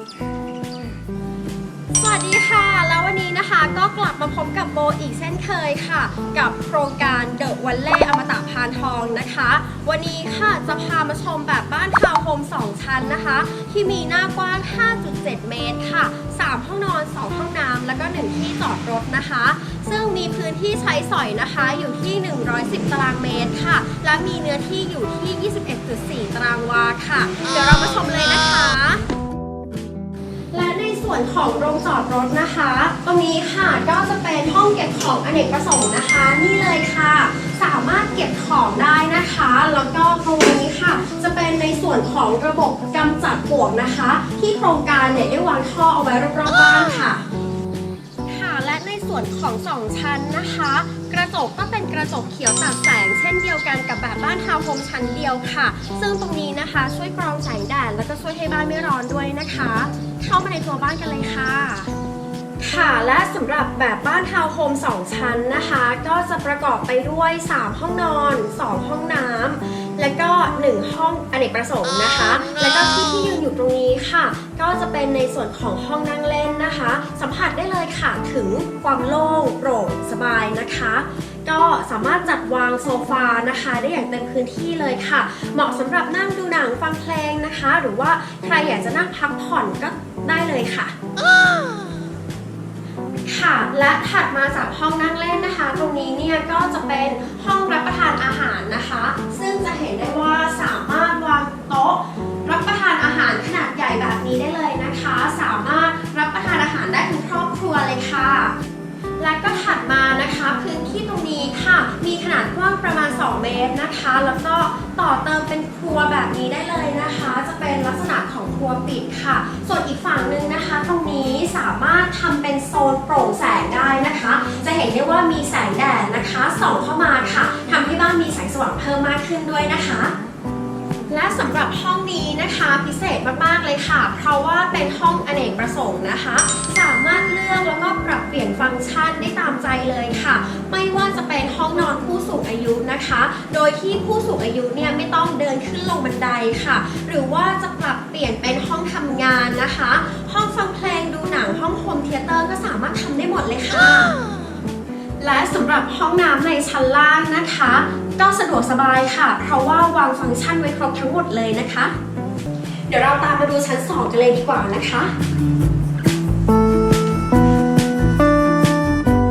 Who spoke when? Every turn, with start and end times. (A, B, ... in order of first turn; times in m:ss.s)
0:02.0-0:29.0 A
0:30.5-0:47.2 A
0:48.3-1:01.9 A
1:02.6-1:30.9 A
1:33.2-1:48.5 A
1:49.2-2:10.1 A
2:11.1-2:34.2 A
2:35.2-2:41.9 A
2:42.9-2:45.1 A